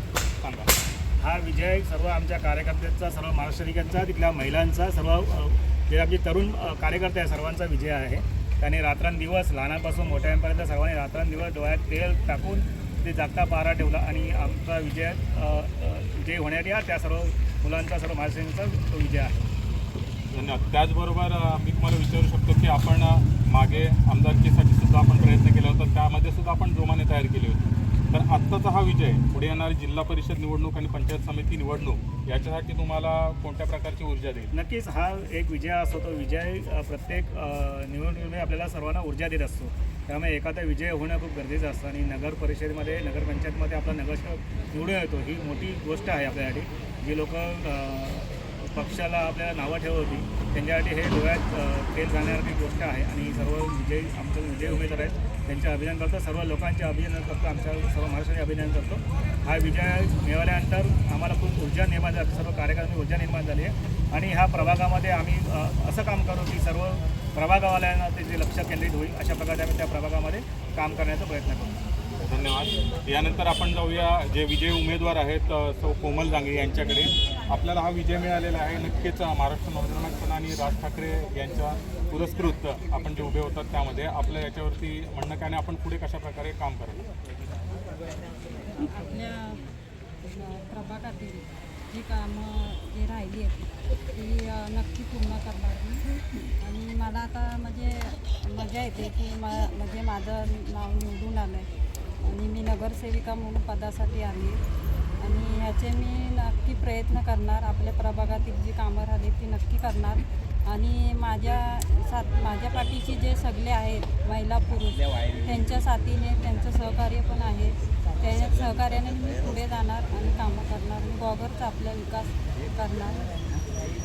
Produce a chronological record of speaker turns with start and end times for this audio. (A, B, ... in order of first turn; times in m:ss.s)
0:00.4-0:00.7 A
0:01.2-0:19.4 B
0:20.3-0:34.5 A
0:34.5-1:11.8 B
1:12.2-1:27.0 A
1:28.7-1:29.6 C
1:30.2-1:41.7 C
1:42.2-1:44.6 C
1:45.2-2:03.3 C